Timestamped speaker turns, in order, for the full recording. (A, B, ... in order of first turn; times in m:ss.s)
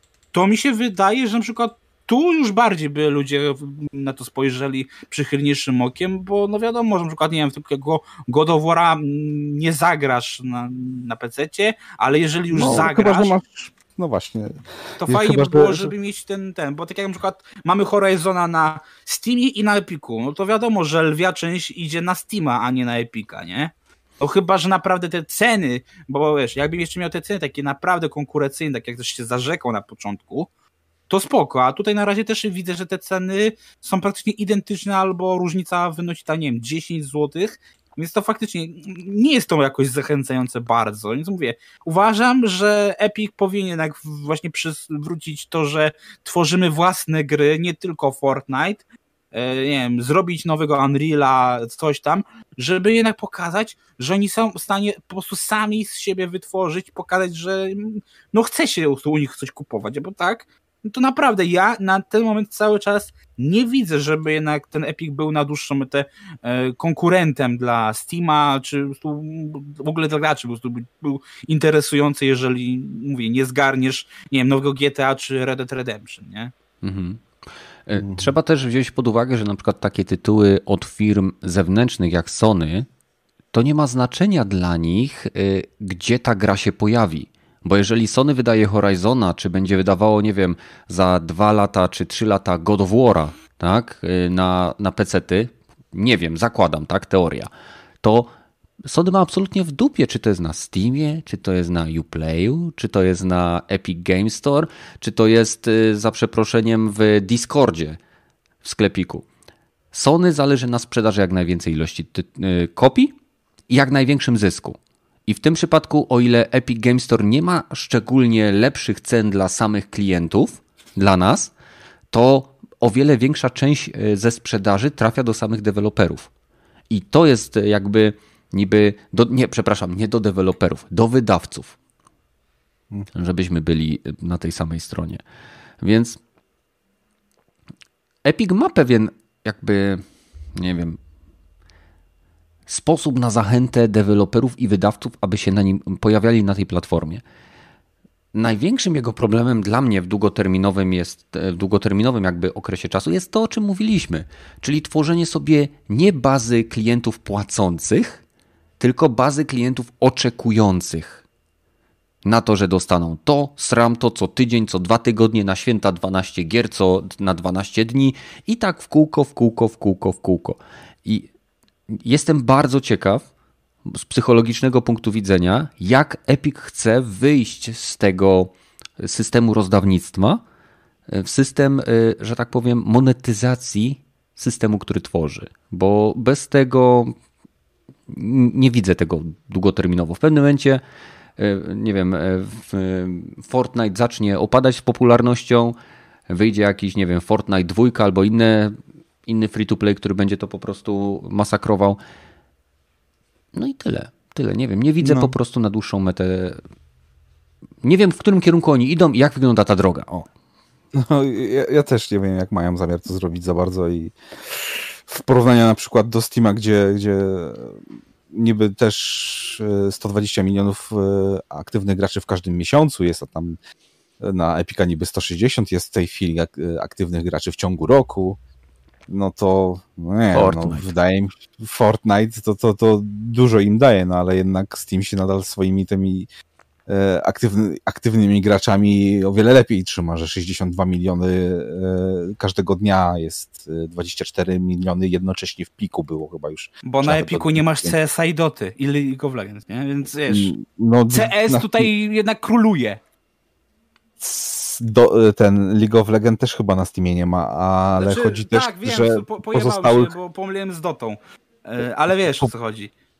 0:00.3-0:13.3 A
0:12.5-0:15.9 B
0:15.0-0:30.5 A
0:31.1-1:16.5 A
1:16.8-1:17.2 C
1:17.9-1:22.9 C
1:18.0-1:18.3 B
1:23.5-1:37.5 C
1:38.0-1:38.3 C
1:38.9-1:48.0 C
1:48.6-1:49.3 C
1:49.9-1:53.1 C
1:53.7-2:01.5 C
2:02.1-2:06.3 C
2:06.9-2:11.8 C
2:13.1-2:15.2 C
2:15.8-2:16.2 C
2:18.2-2:20.0 C
2:20.6-2:21.0 C
2:22.7-2:27.2 C
2:28.3-2:38.2 C
2:38.8-2:41.2 C
2:42.2-2:51.3 C
2:51.9-2:53.3 C
2:53.9-3:00.4 C
3:01.1-3:07.2 C
3:08.1-3:10.8 C
3:11.4-3:15.8 C
3:16.3-3:22.0 C
3:23.5-3:26.6 C
3:25.0-3:25.3 B
3:27.8-3:30.3 C
3:30.9-3:43.6 B
3:44.2-3:48.4 B
3:49.1-3:56.3 B
3:50.3-3:50.9 C
3:56.9-4:08.0 B
4:06.8-4:10.5 A
4:10.3-4:11.9 B
4:11.1-4:13.0 A
4:14.2-4:20.1 B
4:18.0-4:22.9 A